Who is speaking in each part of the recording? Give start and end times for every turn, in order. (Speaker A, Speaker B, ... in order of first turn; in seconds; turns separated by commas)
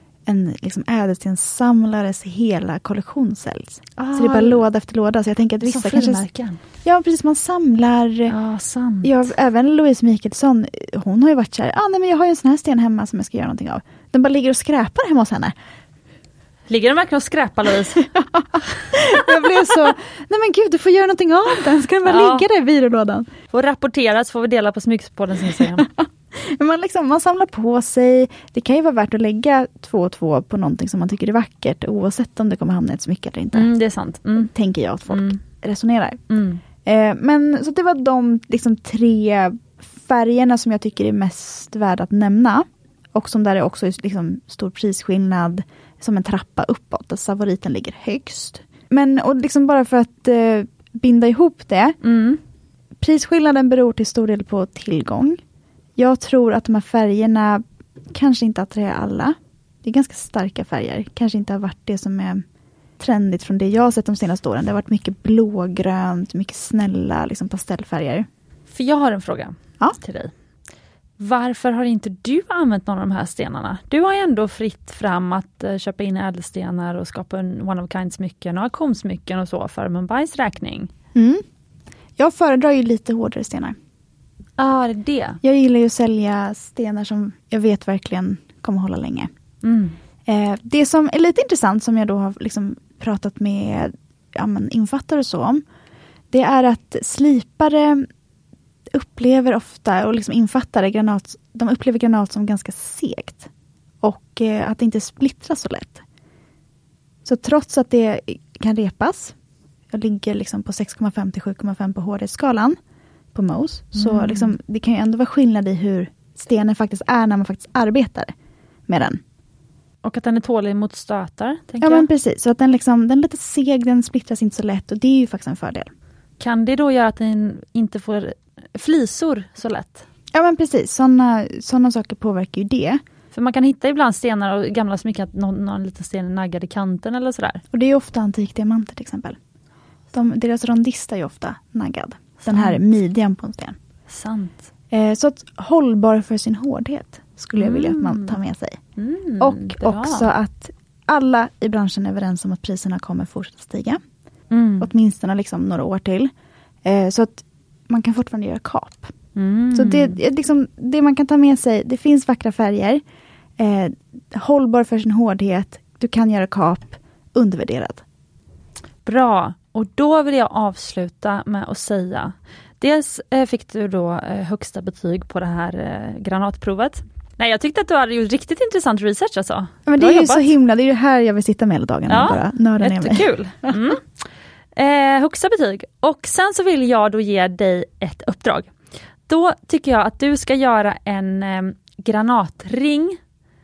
Speaker A: 0.2-6.2, Speaker B: 4.0-4.7, Speaker B: 5.6-6.6, Speaker A: 6.8-8.3, Speaker B: 8.3-9.2, Speaker A: 9.0-15.5, Speaker B: 16.7-18.1, Speaker A: 18.0-23.3, Speaker B: 18.7-19.3, Speaker B: 22.0-22.4, Speaker B: 23.5-25.9, Speaker A: 25.4-33.7, Speaker B: 33.5-34.5, Speaker A: 34.4-36.2, Speaker B: 35.1-35.4, Speaker B: 36.3-36.6, Speaker A: 36.8-52.0, Speaker B: 52.0-52.4, Speaker A: 53.0-55.4, Speaker A: 56.0-62.4, Speaker A: 63.0-68.3, Speaker B: 68.7-70.3, Speaker B: 71.2-80.9, Speaker A: 81.1-81.4, Speaker A: 82.2-83.8, Speaker B: 84.6-85.4, Speaker A: 85.4-89.3, Speaker B: 89.6-90.0, Speaker A: 90.2-95.6, Speaker A: 96.3-98.0, Speaker A: 98.9-103.5, Speaker A: 104.0-106.0, Speaker A: 107.2-109.3, Speaker A: 109.9-112.8, Speaker A: 113.3-118.3, Speaker B: 114.0-114.5, Speaker A: 118.9-119.2, Speaker B: 120.0-122.1, Speaker A: 121.8-125.9, Speaker B: 126.4-130.1, Speaker A: 130.3-133.0, Speaker B: 133.3-137.6, Speaker A: 137.7-139.4, Speaker A: 140.1-143.8, Speaker B: 142.4-142.8, Speaker B: 144.1-144.6, Speaker A: 144.9-148.8, Speaker B: 147.6-148.4, Speaker B: 149.0-150.3, Speaker A: 149.4-154.0, Speaker B: 154.5-154.9, Speaker A: 154.8-156.3, Speaker A: 156.8-159.1, Speaker B: 159.3-160.2, Speaker A: 159.7-163.0, Speaker A: 163.6-168.0, Speaker B: 169.0-180.5, Speaker A: 179.8-183.8, Speaker B: 182.1-184.0, Speaker B: 184.8-188.7, Speaker B: 189.3-193.2